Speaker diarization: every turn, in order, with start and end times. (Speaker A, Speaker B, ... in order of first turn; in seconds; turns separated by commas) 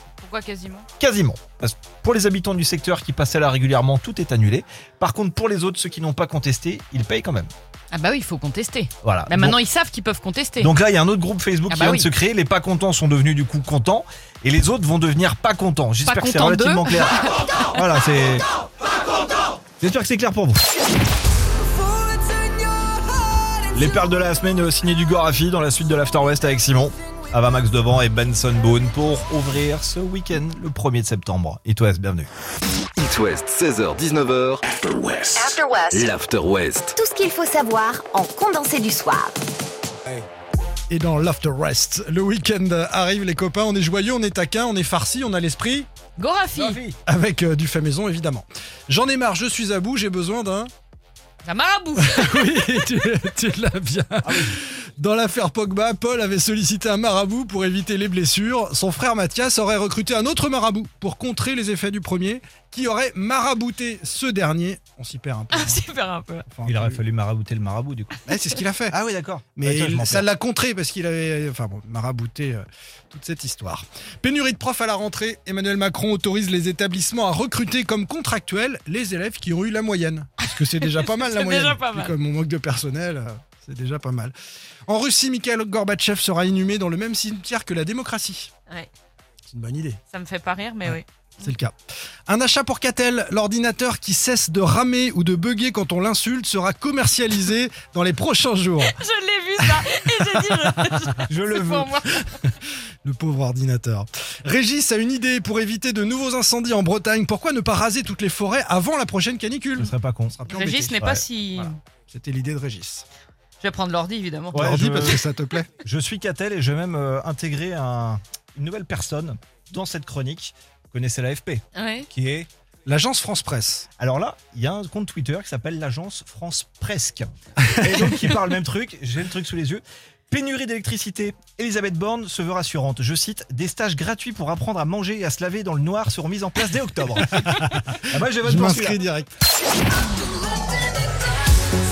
Speaker A: 0.2-0.9, Speaker B: 1.0-7.5, Speaker A: 7.9-10.7, Speaker B: 9.0-9.6, Speaker B: 10.6-18.5, Speaker A: 11.7-12.1, Speaker A: 16.0-17.7, Speaker B: 19.8-20.6, Speaker B: 23.7-32.3, Speaker C: 33.0-36.9, Speaker D: 35.4-36.1, Speaker D: 37.0-39.4, Speaker E: 40.9-45.9, Speaker A: 46.2-46.8, Speaker B: 46.5-47.0, Speaker E: 47.0-50.7, Speaker A: 51.4-52.9, Speaker E: 52.0-65.9, Speaker B: 54.2-54.6, Speaker A: 65.5-66.5, Speaker E: 66.5-67.0, Speaker B: 66.6-68.3, Speaker E: 68.2-69.0, Speaker B: 68.9-70.3, Speaker E: 69.6-84.3, Speaker A: 80.8-82.2, Speaker E: 84.9-88.5, Speaker E: 89.5-90.0, Speaker A: 90.1-91.5, Speaker E: 90.8-91.8, Speaker E: 92.3-99.0, Speaker A: 98.8-102.4, Speaker E: 99.6-101.2, Speaker B: 101.3-101.9, Speaker E: 102.0-111.0, Speaker B: 109.8-110.4, Speaker A: 110.5-111.8, Speaker B: 111.0-111.7, Speaker E: 112.1-113.0, Speaker A: 113.6-114.9, Speaker B: 114.5-115.2, Speaker E: 114.5-115.7, Speaker B: 115.8-122.5, Speaker A: 121.7-122.1, Speaker E: 122.9-123.9, Speaker B: 124.0-139.0, Speaker E: 127.6-128.1, Speaker E: 137.2-139.3